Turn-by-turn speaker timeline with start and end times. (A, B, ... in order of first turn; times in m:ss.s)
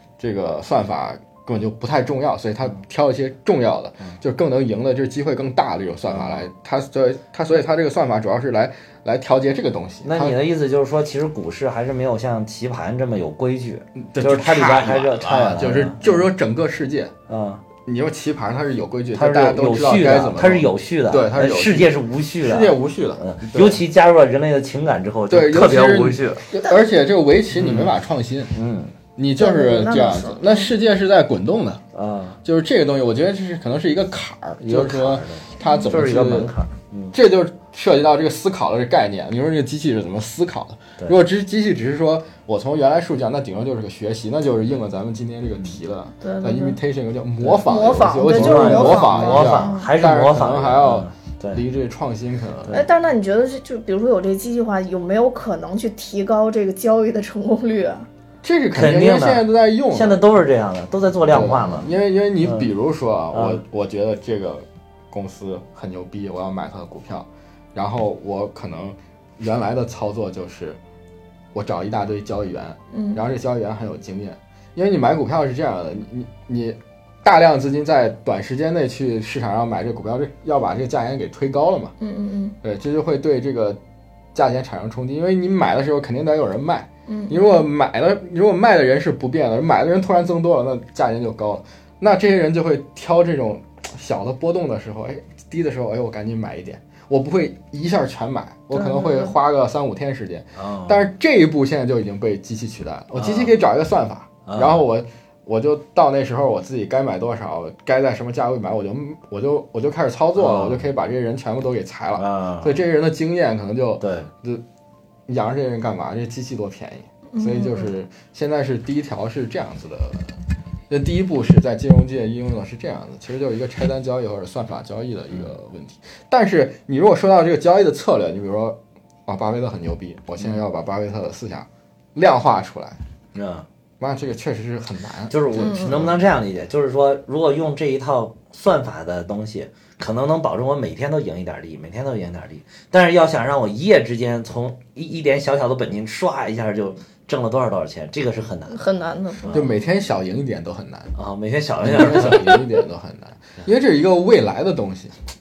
0:00.2-0:10.4 A
0:06.1-0:06.4 B
0:10.0-0:16.2 B
0:14.0-0:17.1 A
0:17.3-0:17.6 B
0:17.8-0:23.8 A
0:19.1-0:26.4 B
0:25.3-0:28.5 A
0:27.5-0:27.9 B
0:28.5-0:29.0 B
0:29.2-0:31.8 A
0:29.4-0:30.7 C
0:31.9-0:32.4 B
0:32.4-0:36.5 A
0:34.6-0:37.1 B
0:35.6-0:35.9 C
0:37.1-0:52.8 A
0:46.2-0:46.8 C
0:47.4-0:47.7 B
0:47.6-0:49.9 C
0:48.2-0:51.6 B
0:52.7-0:58.1 C
0:58.4-1:00.2 A
0:58.7-1:01.9 B
1:01.3-1:10.8 A
1:03.3-1:03.6 B
1:11.5-1:21.9 A
1:12.9-1:13.2 C
1:22.0-1:22.5 C
1:22.6-1:23.8 A
1:24.3-1:54.6 A
1:27.1-1:27.6 C
1:38.7-1:39.3 C
1:40.6-1:41.1 B
1:43.1-1:43.5 B
1:44.4-1:44.8 B
1:50.4-1:50.8 B
1:52.2-1:52.8 B
1:54.0-1:54.3 B
1:55.3-2:00.4 A
1:57.3-1:57.9 C
2:00.9-2:13.0 A
2:13.3-2:13.6 B
2:14.0-2:16.3 A
2:15.3-2:28.8 B
2:15.6-2:16.0 C
2:28.7-2:29.6 C
2:29.4-2:29.7 B
2:29.5-2:31.1 A
2:31.2-2:32.6 B
2:31.8-2:35.1 A